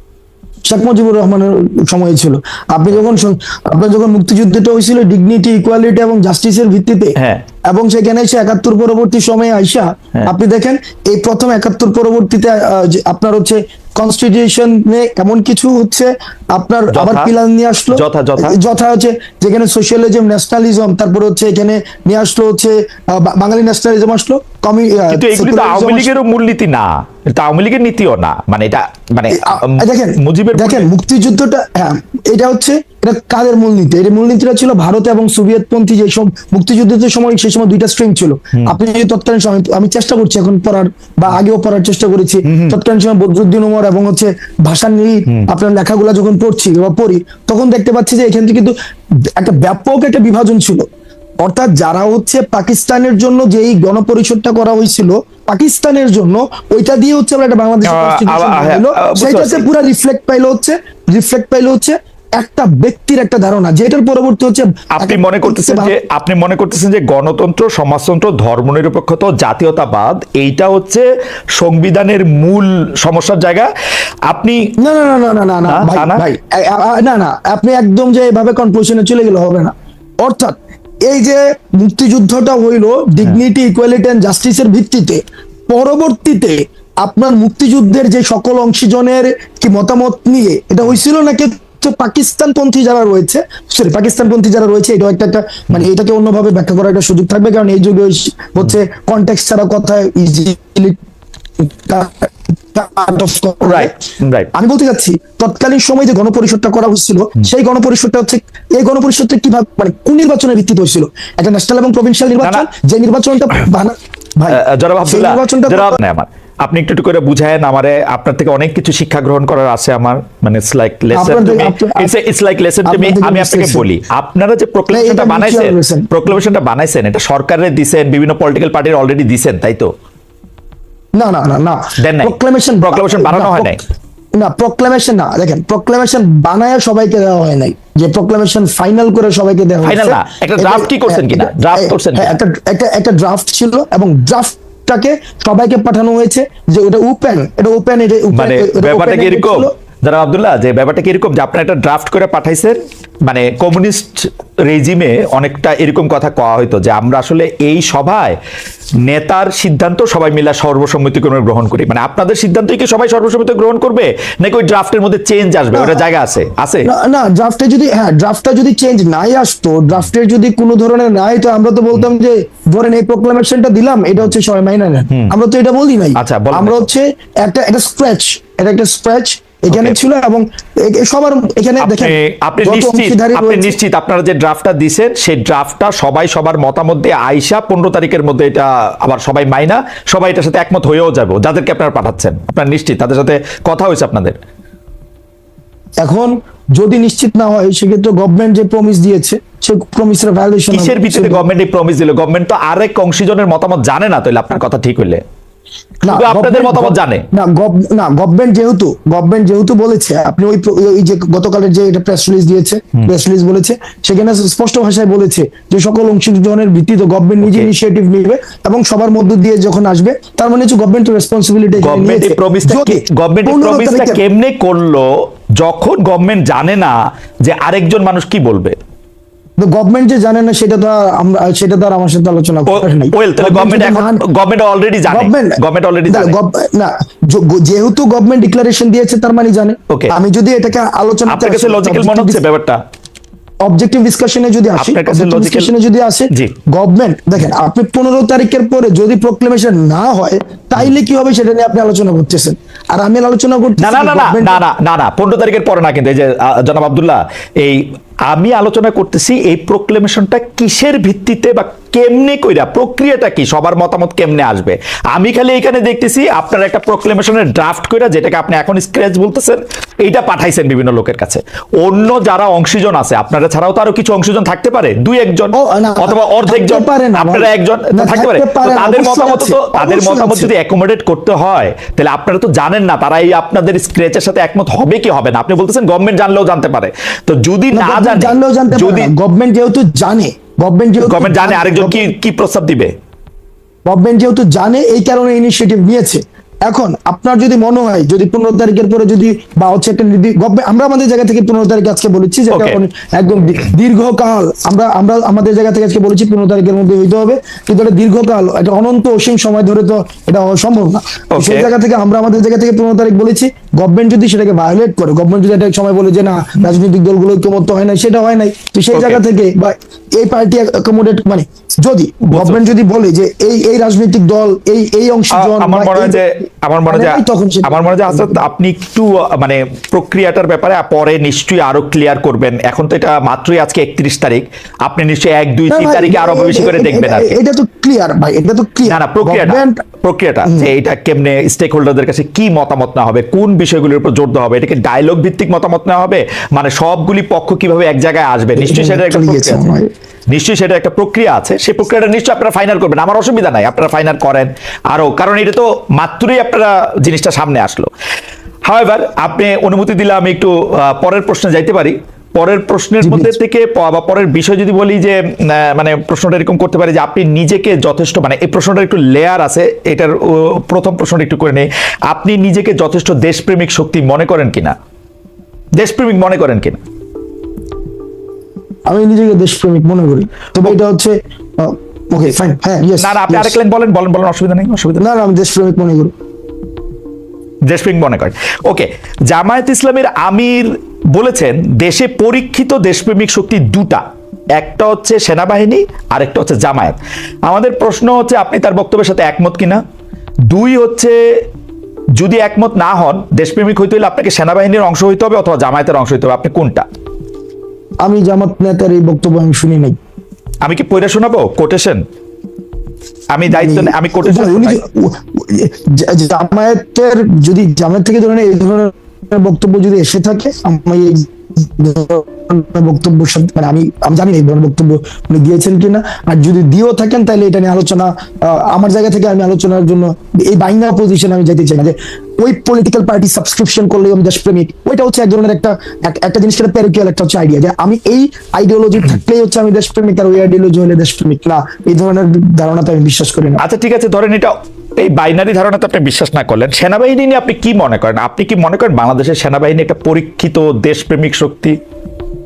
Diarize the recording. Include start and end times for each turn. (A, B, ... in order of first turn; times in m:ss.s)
0:00.7-0:07.1 A
0:07.2-0:07.4 B
0:07.7-0:26.1 A
0:16.9-0:17.3 B
0:17.9-0:18.6 B
0:25.1-0:30.9 B
0:29.3-0:48.7 A
0:42.4-0:42.8 B
0:49.4-0:50.8 A
0:51.4-1:06.0 A
0:57.8-0:59.7 B
1:04.9-1:11.0 B
1:11.6-1:13.7 B
1:14.3-1:14.6 B
1:14.8-1:41.0 A
1:15.7-1:16.2 B
1:41.6-1:44.0 A
1:43.6-1:44.5 B
1:44.5-1:56.0 A
1:52.4-1:52.7 B
1:54.5-2:09.9 B
2:01.1-2:02.1 A
2:02.8-2:03.8 A
2:04.9-2:06.1 A
2:11.1-2:13.8 A
2:12.0-2:13.8 B
2:14.4-2:29.7 A
2:19.8-2:22.3 B
2:28.3-2:38.4 B
2:39.0-2:46.9 B
2:45.7-2:46.0 A
2:46.8-3:03.8 A
2:56.2-2:56.9 B
2:59.7-3:00.0 B
3:01.8-3:14.4 B
3:16.0-3:21.4 A
3:20.7-3:25.2 B
3:26.0-3:44.2 A
3:26.1-3:27.2 B
3:37.4-3:37.7 B
3:41.8-3:48.8 B
3:49.6-3:54.2 A
3:52.7-3:56.3 B
3:55.1-4:02.4 A
3:59.9-4:00.1 B
4:01.3-4:02.8 B
4:03.6-4:14.6 A
4:04.8-4:05.7 B
4:13.8-4:49.1 B
4:35.5-4:40.5 A
4:47.7-4:52.0 A
4:51.0-4:52.9 B
4:53.8-5:26.2 A
5:02.5-5:02.8 B
5:11.3-5:11.7 B
5:18.9-5:19.2 B
5:22.2-5:22.6 B
5:25.3-5:37.4 B
5:26.9-5:28.3 A
5:35.7-5:39.8 A
5:38.8-5:49.6 B
5:40.4-5:40.7 A
5:48.5-5:49.9 A
5:50.3-5:57.9 B
5:58.6-6:14.7 B
6:03.0-6:03.4 A
6:15.8-6:16.8 B
6:18.9-6:23.6 A
6:23.0-6:25.0 B
6:25.0-6:26.1 A
6:27.7-6:34.0 B
6:34.6-6:39.8 B
6:40.5-6:41.2 B
6:42.2-6:46.8 B
6:48.0-6:50.0 A
6:50.6-6:52.0 B
6:53.3-6:54.8 B
6:53.5-7:23.6 A
7:23.6-7:31.8 B